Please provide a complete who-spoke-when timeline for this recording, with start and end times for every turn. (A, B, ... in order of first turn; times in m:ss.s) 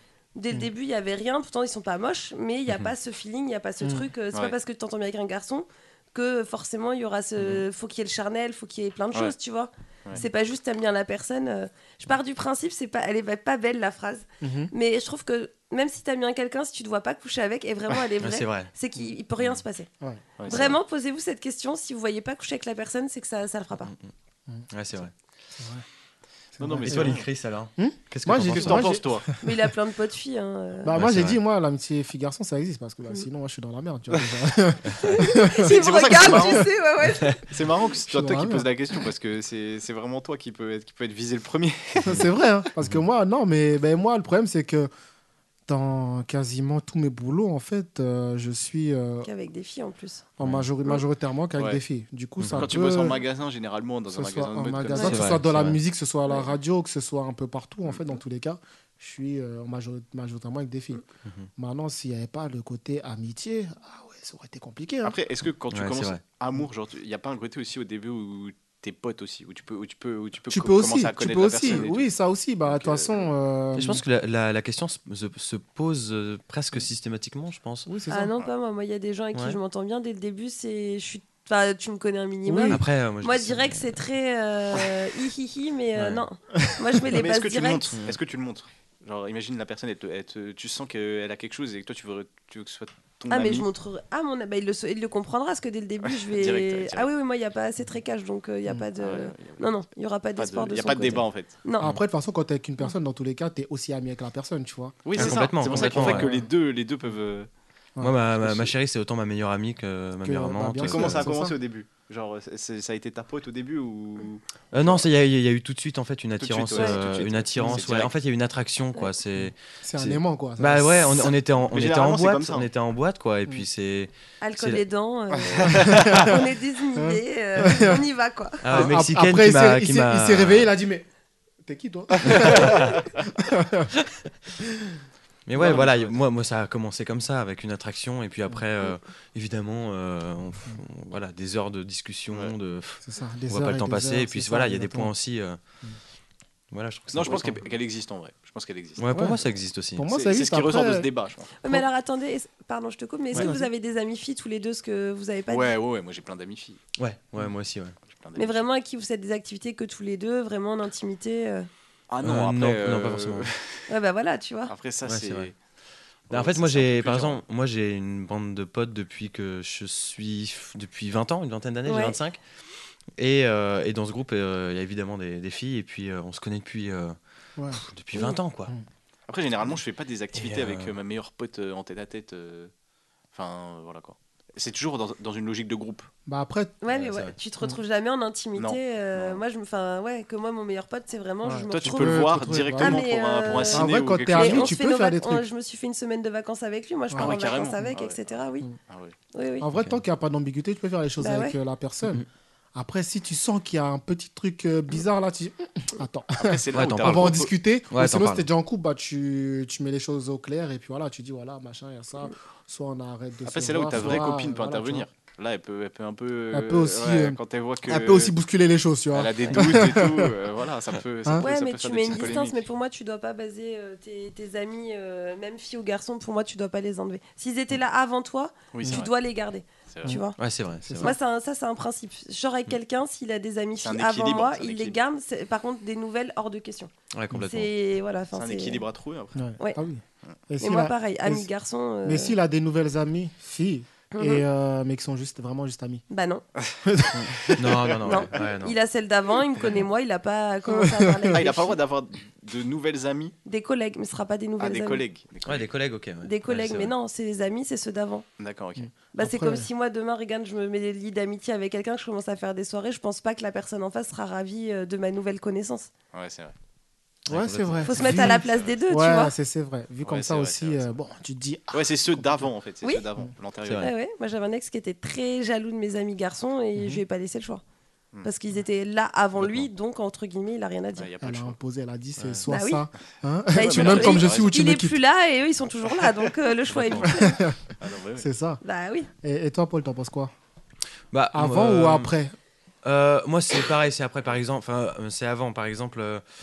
0:00.3-0:19.9 A
0:03.8-0:04.1 B
0:14.4-0:14.7 B
0:18.2-0:18.7 C
0:20.4-0:20.8 D
0:20.4-0:23.9 A
0:24.7-0:25.1 C
0:25.6-0:25.8 B
0:26.6-0:27.2 B
0:26.6-0:27.3 D
0:26.8-0:29.0 C
0:27.8-0:29.5 B
0:28.4-0:29.3 D
0:29.4-0:30.9 A
0:30.8-0:36.6 B
0:30.9-0:31.4 C
0:35.0-0:37.4 A
0:35.6-0:36.7 D
0:37.5-0:42.3 D
0:38.1-0:38.7 B
0:42.0-0:44.9 B
0:45.7-0:49.3 B
0:49.2-0:50.2 A
0:50.4-0:53.2 B
0:50.4-0:50.6 C
0:52.4-0:52.7 C
0:52.5-0:55.4 D
0:54.1-1:01.0 B
0:55.0-0:55.8 C
0:57.9-0:58.2 D
1:01.6-1:05.2 B
1:05.0-1:12.1 D
1:05.7-1:06.2 C
1:10.5-1:14.0 B
1:12.6-1:13.3 D
1:13.8-1:17.9 C
1:17.9-1:18.3 B
1:18.1-1:27.9 A
1:22.4-1:22.8 B
1:22.7-1:24.0 C
1:26.0-1:26.2 C
1:27.1-1:33.7 D
1:33.3-1:41.9 A
1:36.1-1:37.1 D
1:39.0-1:39.7 D
1:40.4-1:41.5 D
1:41.8-1:46.4 B
1:45.0-1:47.5 D
1:45.1-1:46.3 C
1:48.0-1:51.3 C
1:48.4-1:48.7 D
1:50.2-1:51.6 B
1:50.8-1:55.0 D
1:54.7-2:04.8 C
1:56.4-1:58.1 D
1:56.7-1:57.0 A
1:59.4-2:01.3 B
2:01.7-2:02.7 D
2:04.4-2:08.6 A
2:05.4-2:06.3 D
2:05.6-2:06.3 B
2:07.0-2:08.0 B
2:08.6-2:10.7 C
2:08.7-2:11.1 B
2:11.6-2:13.9 B
2:12.2-2:13.0 D
2:12.3-2:12.9 C
2:15.5-2:25.6 C
2:15.6-2:16.2 D
2:23.0-2:25.1 B
2:26.7-2:27.6 C
2:27.1-2:29.1 D
2:29.0-2:30.0 C
2:29.1-2:29.4 B
2:30.0-2:31.1 B
2:30.1-2:31.5 D
2:31.6-2:35.7 A
2:33.3-2:33.7 B
2:35.5-2:36.8 D
2:37.0-2:38.0 C
2:38.0-2:38.6 D
2:38.4-2:41.7 A
2:42.1-2:43.8 D
2:42.2-2:43.5 C
2:43.9-2:44.7 A
2:44.7-2:45.6 D
2:45.0-2:45.5 C
2:46.3-2:47.4 D
2:46.3-2:52.4 C
2:51.8-2:52.2 A
2:53.2-2:57.2 C
2:57.6-2:57.8 B
2:57.7-2:58.7 C
2:59.3-3:02.7 D
3:00.3-3:00.9 C
3:03.3-3:06.1 D
3:06.2-3:06.7 B
3:06.8-3:18.7 A
3:06.9-3:07.3 C
3:08.6-3:09.4 D
3:11.4-3:15.4 B
3:11.7-3:14.7 D
3:17.1-3:17.4 B
3:17.1-3:18.4 D
3:18.9-3:19.1 D
3:19.3-3:19.7 A
3:19.6-3:22.2 B
3:21.2-3:21.6 A
3:22.8-3:35.1 B
3:26.3-3:27.5 D
3:26.7-3:28.4 C
3:33.4-3:38.3 D
3:36.5-3:40.3 B
3:39.1-3:42.6 D
3:41.4-3:50.4 A
3:48.7-3:49.1 D
3:49.9-3:50.2 D
3:50.4-3:51.1 C
3:50.8-3:51.2 B
3:51.0-3:56.9 A
3:53.8-3:55.0 D
3:57.1-3:57.7 C
3:57.4-3:58.8 A
3:58.3-3:59.4 D
3:59.3-4:01.5 B
4:00.6-4:02.4 A
4:02.0-4:06.0 B
4:04.1-4:04.4 A
4:06.1-4:06.4 A
4:06.8-4:07.6 B
4:07.1-4:08.7 C
4:07.7-4:08.1 D
4:08.0-4:11.8 A
4:10.7-4:11.4 B
4:11.3-4:13.4 D
4:13.4-4:15.0 A
4:14.6-4:15.7 D
4:15.4-4:16.9 C
4:16.2-4:18.2 A
4:18.4-4:18.9 D
4:18.8-4:19.7 B
4:19.1-4:25.9 A
4:26.1-4:26.5 D
4:27.3-4:28.3 C
4:27.3-4:32.5 B
4:27.8-4:29.3 A
4:28.3-4:28.7 D
4:30.0-4:30.9 D
4:31.7-4:33.8 D
4:33.6-4:33.9 C
4:33.8-4:37.6 A
4:36.8-4:37.0 B
4:38.2-4:41.1 A
4:39.4-4:39.7 D
4:41.0-4:41.6 D
4:41.2-4:45.0 B
4:42.2-4:42.4 C
4:42.5-4:42.8 A
4:43.5-4:47.4 A
4:43.6-4:44.6 D
4:46.8-4:47.1 C
4:47.0-4:47.6 B
4:47.8-4:48.3 D
4:48.2-4:48.6 B
4:48.6-4:49.1 A
4:49.2-4:50.3 B
4:51.1-4:52.1 C
4:51.3-4:52.3 B
4:52.8-4:56.2 C